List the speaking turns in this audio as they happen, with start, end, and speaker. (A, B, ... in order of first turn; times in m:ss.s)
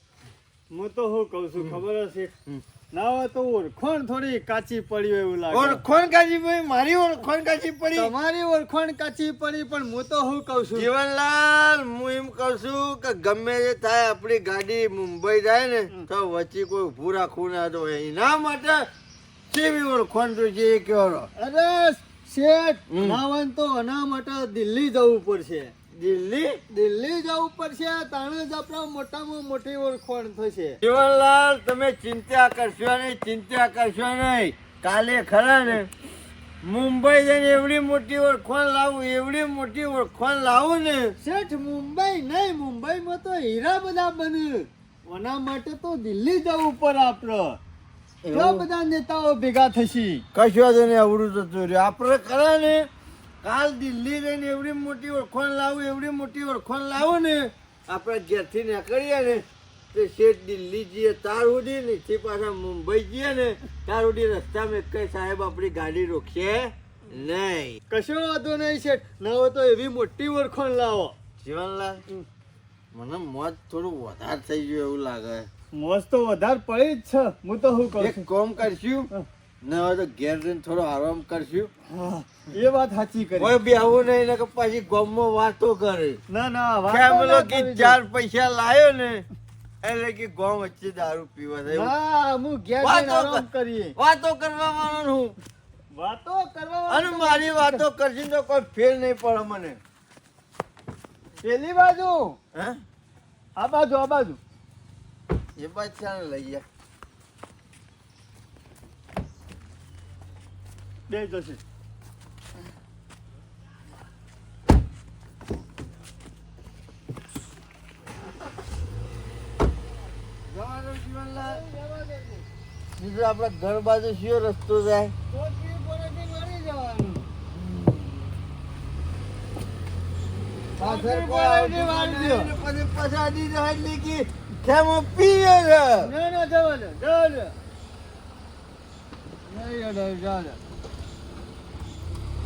0:00.7-0:02.3 A
0:02.9-0:05.8 A
0:05.5-0:08.1 B
0:08.0-0:10.9 A
0:10.7-0:18.9 B
0:19.5-0:21.3 B
0:21.4-0:25.7 A
0:22.9-0:23.2 B
0:25.9-0:26.6 B
0:26.7-0:30.8 A
0:30.8-0:35.9 B
0:36.6-0:41.2 B
0:41.2-0:47.6 A
0:48.2-0:48.7 B
0:48.3-0:50.2 A
0:50.3-0:52.9 B
0:53.4-1:07.8 B
1:07.9-1:11.2 A
1:11.4-1:12.0 B
1:12.9-1:15.5 B
1:15.7-1:18.2 A
1:18.0-1:19.1 B
1:19.6-1:21.7 B
1:21.9-1:23.6 A
1:23.4-1:26.2 B
1:26.3-1:28.0 A
1:26.9-1:29.3 B
1:29.8-1:31.9 B
1:31.7-1:34.0 A
1:32.8-1:35.4 B
1:35.9-1:37.8 A
1:36.9-1:39.8 B
1:41.4-1:42.4 A
1:42.5-1:42.8 B
1:43.6-1:44.4 A
1:45.6-1:46.6 B
1:51.1-1:51.6 A
2:00.5-2:01.6 B
2:01.4-2:02.5 A
2:03.0-2:05.1 B
2:05.3-2:07.3 A
2:10.8-2:16.1 B
2:10.8-2:12.5 A
2:16.0-2:17.5 A
2:19.5-2:20.6 A